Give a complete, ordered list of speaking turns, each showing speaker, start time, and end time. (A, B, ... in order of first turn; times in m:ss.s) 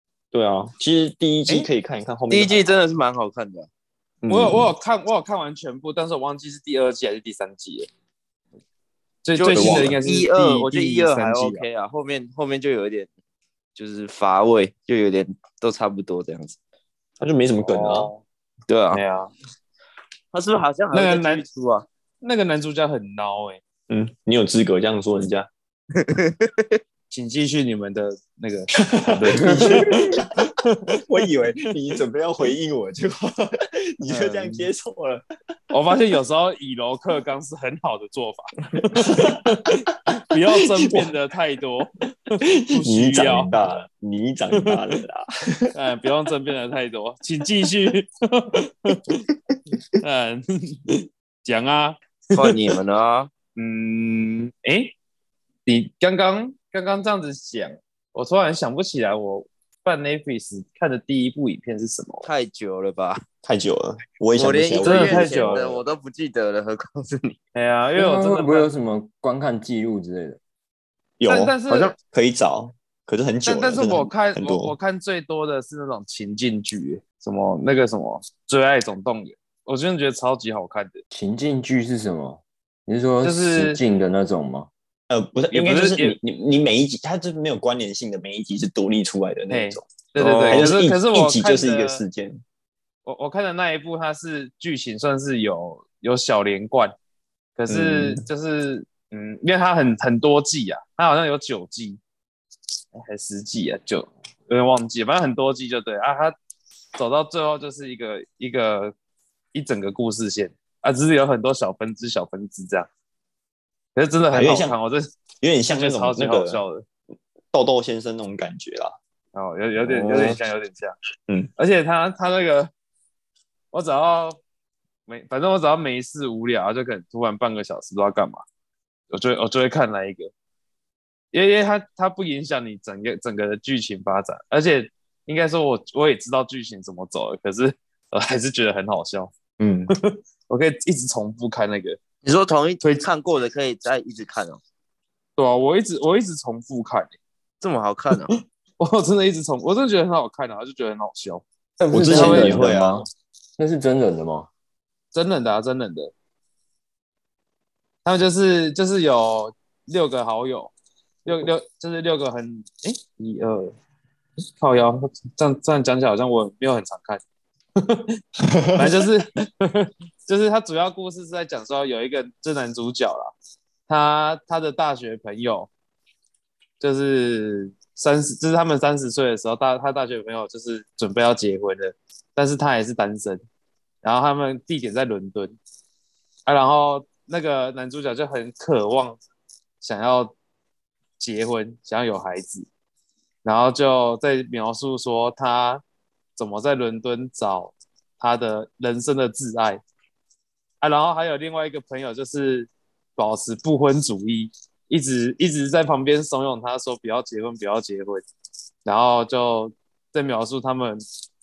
0:00.3-0:02.6 A
0:02.3-0:03.7 B
0:04.2-0:04.7 A
0:04.3-0:07.9 C
0:09.2-0:11.6 C
0:09.4-0:13.1 B
0:09.5-0:10.0 A
0:13.7-0:16.6 B
0:17.2-0:18.1 A
0:17.6-0:18.2 C
0:18.7-0:19.0 B
0:18.9-0:19.3 C
0:20.3-0:21.8 B
0:20.9-0:21.4 C
0:22.2-0:23.6 C
0:23.9-0:25.5 A
0:26.0-0:26.8 B
0:27.1-0:32.0 C
0:28.8-0:30.4 A
0:29.6-0:29.9 D
0:31.0-0:35.2 A
0:34.0-0:34.7 C
0:35.7-0:43.5 C
0:38.8-0:41.1 A
0:42.6-0:45.7 A
0:44.5-0:44.8 C
0:45.7-0:49.2 C
0:50.0-0:52.6 C
0:52.3-0:53.3 B
0:53.6-0:54.9 C
0:55.6-1:02.3 C
1:02.2-1:03.2 B
1:03.4-1:05.8 A
1:04.4-1:07.4 B
1:04.8-1:05.7 C
1:07.5-1:08.7 C
1:08.0-1:10.4 D
1:11.2-1:14.7 A
1:11.3-1:11.9 C
1:13.4-1:21.0 C
1:21.1-1:24.7 D
1:23.2-1:23.8 C
1:25.1-1:32.4 A
1:25.5-1:26.2 C
1:29.5-1:32.0 C
1:33.0-1:36.9 C
1:37.6-1:42.0 C
1:37.7-1:38.2 A
1:42.9-1:46.4 C
1:47.0-1:48.9 C
1:49.5-1:52.9 C
1:53.9-1:55.0 C
1:54.3-1:54.8 A
1:55.4-1:56.6 A
1:55.7-1:56.8 C
1:57.5-1:59.0 A
1:59.3-2:01.0 C
1:59.8-2:00.4 A
2:01.6-2:02.7 C
2:03.7-2:04.4 C
2:05.1-2:08.4 C
2:09.1-2:10.3 C
2:11.3-2:19.3 C
2:19.6-2:19.9 A
2:19.9-2:22.0 C
2:22.2-2:24.6 B
2:25.4-2:27.1 C
2:27.6-2:28.4 B
2:28.8-2:31.4 C
2:31.8-2:33.1 D
2:31.9-2:33.0 A
2:32.1-2:32.7 C
2:33.6-2:34.5 D
2:35.1-2:36.1 C
2:38.0-2:40.7 C
2:41.2-2:43.7 C
2:44.6-2:47.2 C
2:47.8-2:48.2 C
2:48.4-2:49.2 A
2:48.8-2:53.3 C
2:53.9-2:55.7 C
2:56.8-3:03.4 C
3:04.0-3:05.6 C
3:06.5-3:09.2 C
3:09.8-3:10.3 C
3:11.2-3:12.7 C
3:13.4-3:15.8 C
3:16.4-3:19.8 C
3:20.8-3:28.2 C
3:28.8-3:31.0 C